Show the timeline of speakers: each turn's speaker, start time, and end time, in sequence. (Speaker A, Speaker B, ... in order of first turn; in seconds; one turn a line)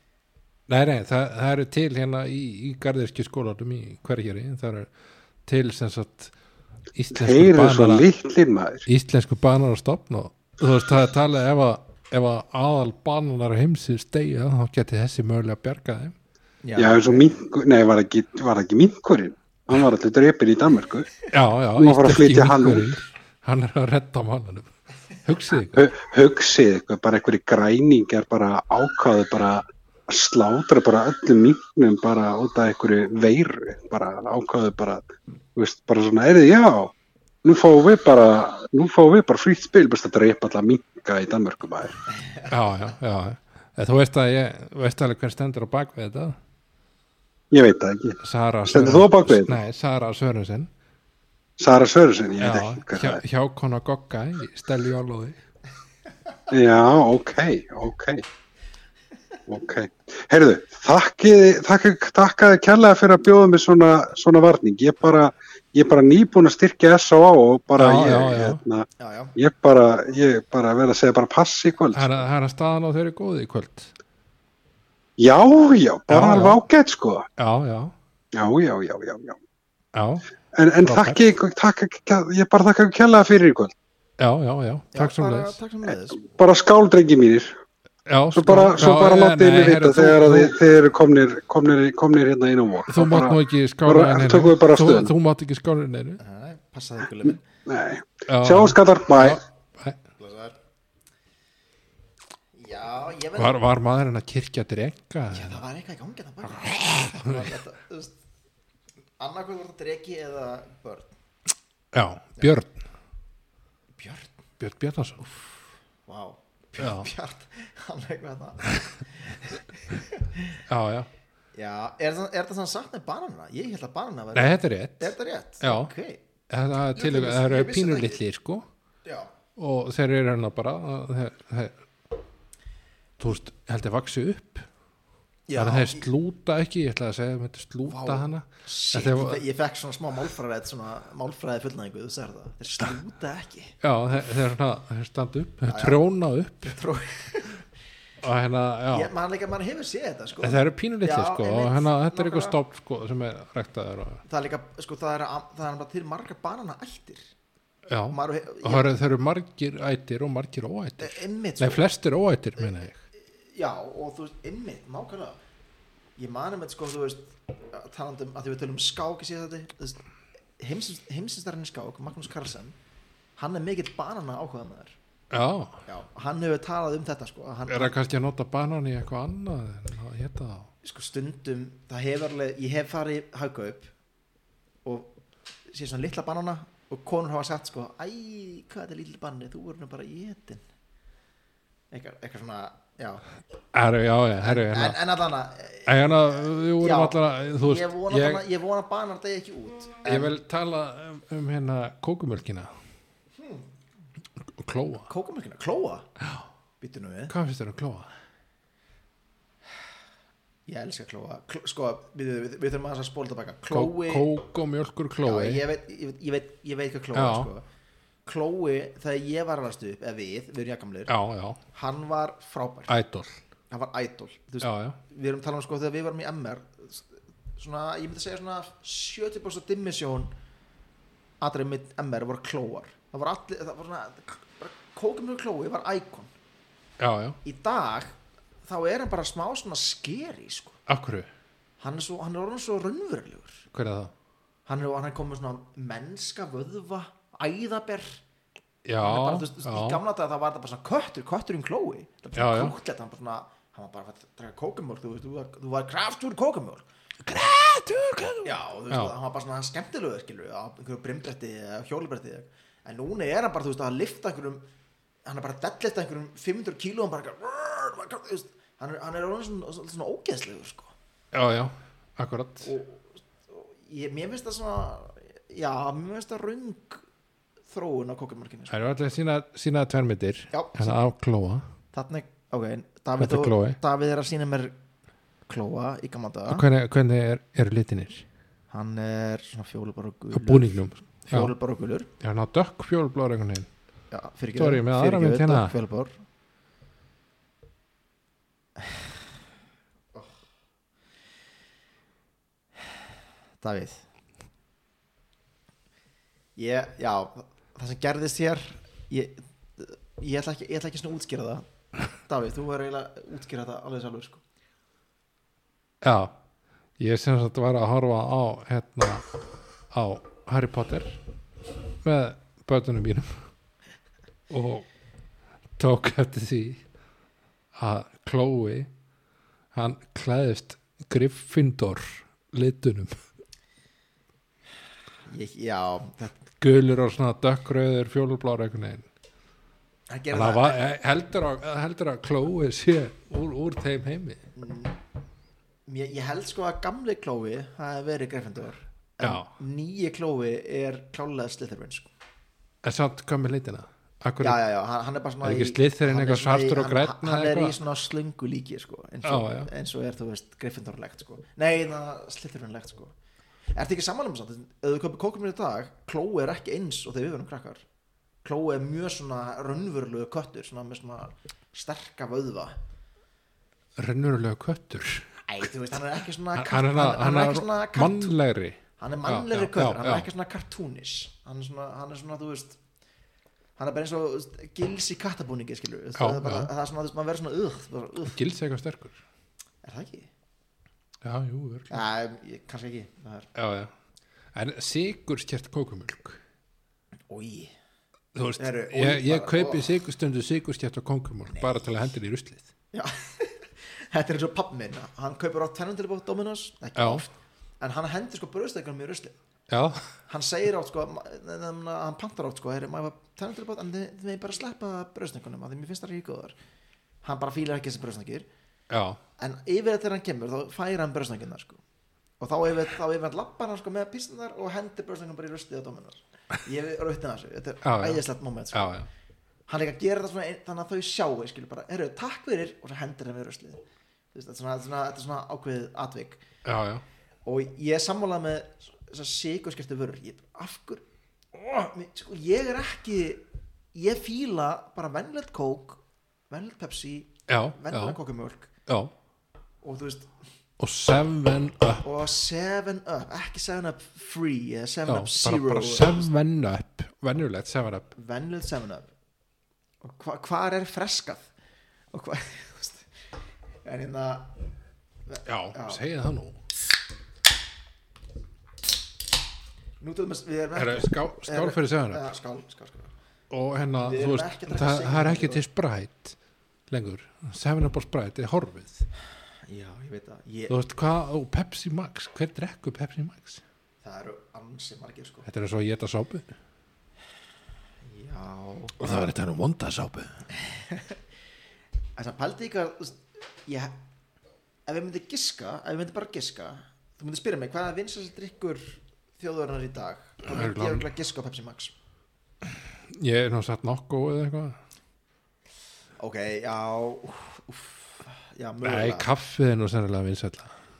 Speaker A: 0.7-4.9
Speaker A: 5.5-6.3
Speaker A: 6.9-8.1
Speaker B: 7.1-8.8
Speaker A: 8.8-16.1
Speaker C: 16.6-17.3
Speaker B: 16.8-22.9
Speaker A: 21.3-24.7
Speaker A: 25.2-25.9
Speaker B: 25.7-36.9
Speaker B: 37.4-42.0
Speaker A: 42.5-46.4
Speaker B: 47.5-49.6
Speaker A: 48.2-50.7
Speaker B: 51.6-53.2
Speaker A: 52.4-55.4
Speaker B: 56.5-58.2
Speaker B: 59.5-72.2
Speaker A: 67.8-68.6
Speaker C: 69.0-69.3
Speaker A: 71.9-73.9
Speaker B: 75.2-77.2
Speaker A: 76.1-76.6
Speaker A: 77.4-77.9
Speaker B: 78.3-79.4
Speaker A: 79.9-80.2
Speaker B: 80.5-83.7
Speaker A: 80.8-81.2
Speaker A: 84.2-85.6
Speaker C: 84.9-86.2
Speaker B: 86.2-87.5
Speaker A: 88.0-90.5
Speaker B: 88.3-95.1
Speaker A: 92.9-96.2
Speaker C: 96.2-97.4
Speaker B: 97.7-99.4
Speaker A: 98.3-100.0
Speaker C: 100.2-100.5
Speaker C: 102.5-103.6
Speaker A: 103.3-105.6
Speaker C: 105.3-108.2
Speaker A: 106.7-107.5
Speaker C: 109.2-111.1
Speaker A: 111.9-112.8
Speaker C: 114.0-114.3
Speaker A: 114.6-115.2
Speaker C: 115.2-120.6
Speaker A: 116.8-117.1
Speaker A: 120.7-121.1
Speaker C: 121.5-126.2
Speaker A: 124.3-125.9
Speaker A: 126.5-128.7
Speaker C: 126.9-128.2
Speaker C: 129.0-129.3
Speaker A: 129.6-131.8
Speaker A: 133.2-134.7
Speaker C: 135.5-136.1
Speaker A: 135.6-139.4
Speaker C: 137.9-143.8
Speaker A: 143.8-146.8
Speaker C: 145.7-146.0
Speaker C: 146.6-147.7
Speaker A: 148.2-149.1
Speaker C: 148.9-152.6
Speaker A: 150.4-154.2
Speaker C: 154.2-157.3
Speaker A: 157.9-163.0
Speaker C: 158.1-158.9
Speaker C: 161.0-161.9
Speaker C: 163.5-165.4
Speaker C: 166.2-170.0
Speaker C: 170.6-172.7
Speaker C: 173.4-175.0
Speaker A: 175.3-175.8
Speaker C: 175.8-177.9
Speaker A: 177.7-180.7
Speaker C: 180.8-183.9
Speaker C: 184.8-185.1
Speaker C: 185.7-190.6
Speaker C: 191.9-193.2
Speaker A: 193.7-195.0
Speaker C: 194.4-200.3
Speaker A: 195.8-198.4
Speaker A: 200.0-202.7
Speaker C: 203.4-203.7
Speaker A: 204.5-205.1
Speaker C: 205.0-206.1
Speaker C: 206.8-207.3
Speaker A: 207.3-208.1
Speaker C: 210.7-214.3
Speaker A: 213.7-215.6
Speaker C: 215.2-217.6
Speaker A: 217.1-217.5
Speaker C: 218.2-221.1
Speaker A: 221.1-221.6
Speaker C: 221.7-222.9
Speaker A: 222.9-223.4
Speaker C: 223.7-230.3
Speaker A: 224.6-225.0
Speaker C: 231.4-236.3
Speaker A: 237.0-237.4
Speaker C: 237.4-240.8
Speaker A: 240.9-241.3
Speaker C: 241.8-243.7
Speaker A: 243.7-244.1
Speaker C: 244.7-248.2
Speaker A: 248.8-250.0
Speaker C: 249.0-256.8
Speaker A: 252.3-252.8
Speaker A: 257.2-259.1
Speaker C: 258.4-264.7
Speaker C: 265.2-270.9
Speaker A: 271.3-272.7
Speaker C: 272.6-277.0
Speaker C: 277.7-278.8
Speaker A: 278.7-281.6
Speaker C: 280.5-281.0
Speaker C: 281.9-284.7
Speaker A: 283.2-283.8
Speaker C: 285.5-286.6
Speaker A: 286.5-288.2
Speaker C: 288.7-292.1
Speaker A: 290.3-291.5
Speaker A: 292.2-293.7
Speaker C: 294.1-296.1
Speaker A: 294.5-295.7
Speaker C: 300.1-300.4
Speaker C: 303.6-304.0
Speaker C: 306.6-311.6
Speaker C: 312.2-314.4
Speaker A: 316.0-316.4
Speaker A: 317.0-319.2
Speaker A: 319.9-321.2
Speaker A: 322.0-323.4
Speaker A: 324.5-324.9
Speaker A: 325.8-326.8
Speaker A: 327.7-328.9
Speaker A: 329.7-333.2
Speaker C: 335.2-336.4
Speaker A: 336.6-339.1
Speaker C: 340.1-340.8
Speaker A: 340.3-344.4
Speaker C: 344.5-345.0
Speaker C: 345.9-352.1
Speaker A: 349.2-349.5
Speaker A: 352.8-354.6
Speaker C: 354.4-363.1
Speaker A: 355.4-357.8
Speaker A: 359.2-359.7
Speaker C: 363.7-367.8
Speaker C: 368.4-372.8
Speaker A: 373.9-375.3
Speaker C: 375.4-378.3
Speaker A: 376.5-380.3
Speaker C: 379.0-382.8
Speaker C: 383.8-388.4
Speaker A: 386.1-386.7
Speaker A: 388.3-389.2
Speaker C: 389.8-390.3
Speaker A: 391.2-392.0
Speaker C: 391.9-393.5
Speaker A: 393.5-393.9
Speaker A: 394.5-396.4
Speaker C: 397.3-397.7
Speaker A: 398.3-402.7
Speaker C: 398.6-400.0
Speaker C: 401.5-401.8
Speaker C: 402.9-409.4
Speaker A: 406.9-407.2
Speaker A: 409.7-410.1
Speaker C: 410.3-416.5
Speaker C: 417.2-418.5
Speaker A: 418.9-419.2
Speaker C: 419.4-421.8
Speaker C: 422.4-429.0
Speaker A: 427.8-429.1
Speaker C: 429.7-433.8
Speaker C: 434.3-436.4
Speaker A: 436.6-437.0
Speaker C: 437.4-443.4
Speaker C: 443.9-448.7
Speaker A: 447.5-448.2
Speaker A: 448.9-449.1
Speaker C: 449.8-450.3
Speaker A: 450.8-452.0
Speaker C: 452.0-456.2
Speaker A: 455.1-458.1
Speaker C: 458.1-459.1
Speaker C: 460.0-461.5
Speaker C: 462.1-463.1
Speaker C: 463.8-464.5
Speaker C: 465.3-466.0
Speaker A: 465.4-466.6
Speaker C: 470.0-473.1
Speaker A: 470.8-472.3
Speaker A: 473.5-476.4
Speaker C: 474.0-475.6
Speaker A: 476.9-479.1
Speaker C: 479.7-480.7
Speaker A: 480.7-483.6
Speaker C: 484.0-485.5
Speaker A: 485.4-486.5
Speaker C: 488.0-489.0
Speaker A: 489.0-490.4
Speaker C: 490.5-491.2
Speaker C: 492.2-493.9
Speaker C: 494.9-501.9
Speaker A: 500.4-501.1
Speaker A: 502.6-504.8
Speaker C: 506.2-509.3
Speaker A: 508.8-510.8